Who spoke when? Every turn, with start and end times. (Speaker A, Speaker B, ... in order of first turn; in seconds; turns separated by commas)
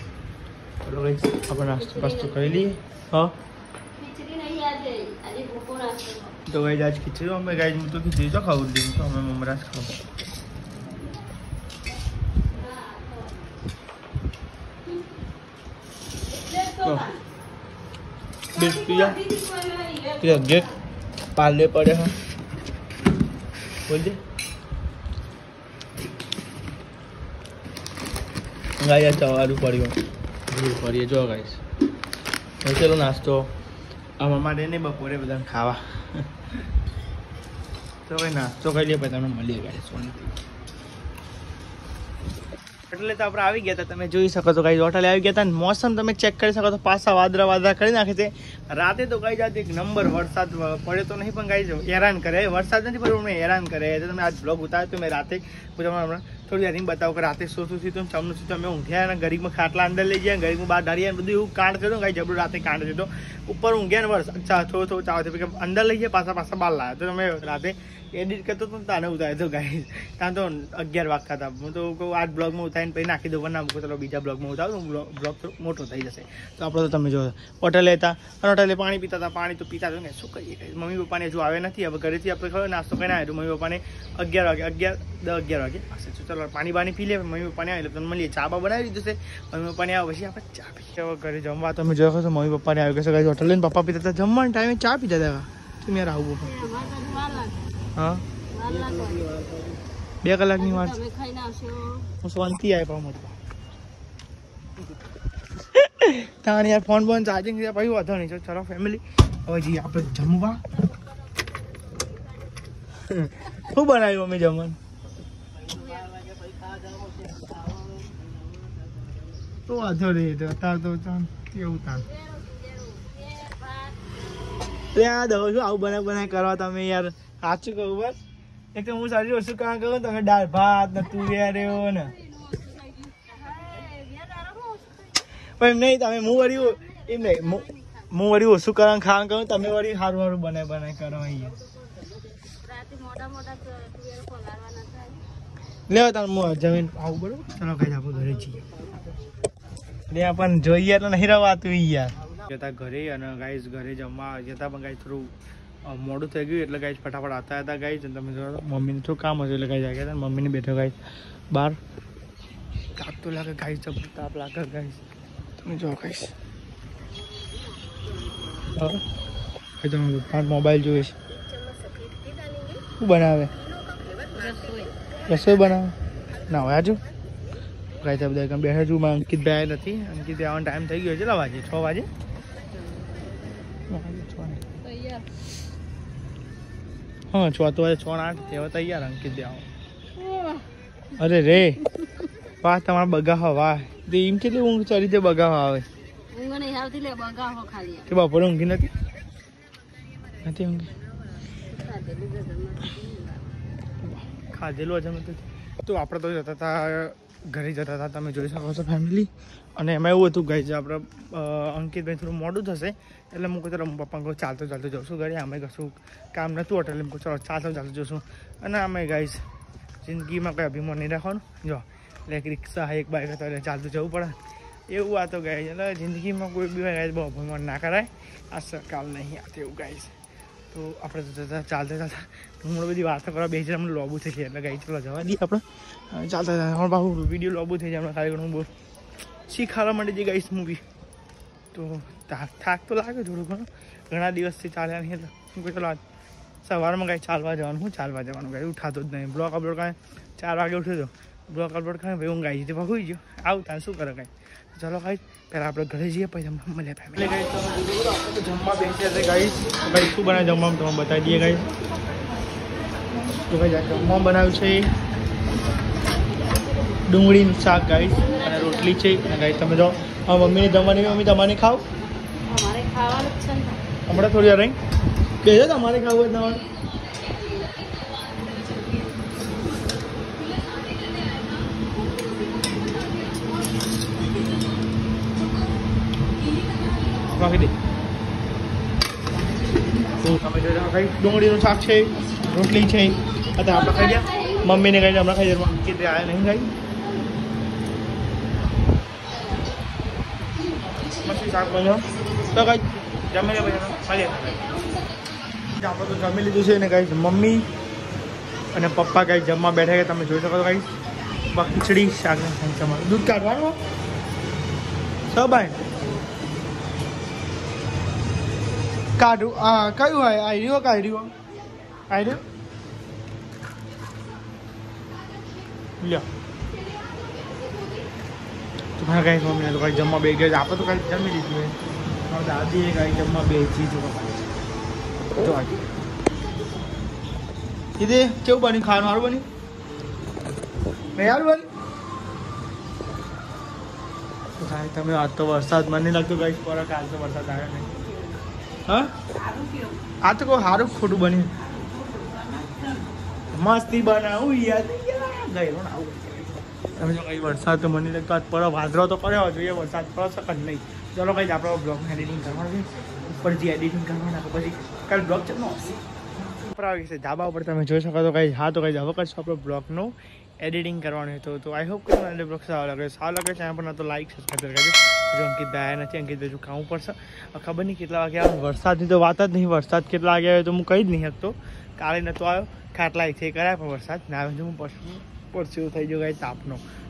Speaker A: 0.8-3.3, Speaker B: 1.7-2.7, Speaker B: 3.9-6.4, Speaker A: 6.5-10.0, Speaker B: 12.4-13.5, Speaker B: 16.3-17.2, Speaker A: 16.8-17.1, Speaker B: 18.5-20.8, Speaker A: 18.5-19.2, Speaker A: 20.2-20.7, Speaker A: 21.3-22.1, Speaker A: 23.9-24.2, Speaker A: 28.8-30.0, Speaker A: 30.5-31.6, Speaker A: 32.6-33.5, Speaker A: 34.2-36.6, Speaker A: 38.0-40.4, Speaker A: 42.9-96.5, Speaker B: 96.4-97.7, Speaker A: 97.9-98.2, Speaker B: 98.5-99.4, Speaker A: 100.2-101.0, Speaker B: 100.5-102.1, Speaker A: 102.2-103.3, Speaker A: 105.6-110.6, Speaker A: 113.0-114.8, Speaker B: 115.7-116.2, Speaker A: 119.7-122.1, Speaker B: 122.0-124.1, Speaker A: 124.9-128.2, Speaker A: 128.7-132.2, Speaker B: 131.2-135.2, Speaker A: 135.6-141.6, Speaker B: 136.7-138.0, Speaker B: 142.4-145.2, Speaker A: 145.9-148.7, Speaker A: 150.1-155.3, Speaker A: 155.8-161.0, Speaker A: 161.5-161.8, Speaker A: 162.9-165.0, Speaker A: 165.6-166.3, Speaker A: 168.7-169.0, Speaker A: 169.8-171.2, Speaker B: 171.5-172.8, Speaker A: 173.0-173.5, Speaker B: 174.1-175.0, Speaker A: 175.3-175.9, Speaker A: 176.5-177.0, Speaker A: 178.0-182.1, Speaker B: 182.8-183.1, Speaker A: 183.9-184.6, Speaker B: 184.8-185.4, Speaker A: 187.3-189.7, Speaker B: 190.2-190.7, Speaker A: 191.2-191.8, Speaker A: 192.6-195.8, Speaker B: 196.3-198.1, Speaker A: 198.1-198.9, Speaker A: 200.4-200.9, Speaker B: 201.5-203.6, Speaker A: 204.1-219.4, Speaker A: 220.0-224.3, Speaker A: 224.9-230.1, Speaker A: 230.7-238.7, Speaker A: 239.5-240.8, Speaker A: 241.7-246.0, Speaker A: 246.6-261.7, Speaker A: 263.3-264.9, Speaker A: 267.1-271.9, Speaker B: 268.1-269.4, Speaker B: 272.4-273.8, Speaker A: 274.1-274.8, Speaker A: 275.4-276.7, Speaker B: 276.8-285.7, Speaker B: 286.4-287.4, Speaker A: 287.2-287.7, Speaker A: 290.1-296.7, Speaker B: 293.6-294.7, Speaker B: 300.6-301.4, Speaker A: 301.1-304.8, Speaker B: 302.1-302.5, Speaker B: 304.2-305.3, Speaker A: 305.8-307.6, Speaker A: 308.7-313.8, Speaker A: 315.3-315.8, Speaker A: 319.2-321.3, Speaker A: 322.1-322.4, Speaker A: 326.0-326.2, Speaker B: 326.8-328.1, Speaker A: 329.0-334.6, Speaker A: 335.3-335.8, Speaker A: 338.0-339.4, Speaker A: 341.1-341.7, Speaker A: 344.6-348.0, Speaker A: 348.9-349.1, Speaker A: 350.2-351.9, Speaker B: 352.2-352.8, Speaker A: 353.5-366.0, Speaker A: 366.6-386.8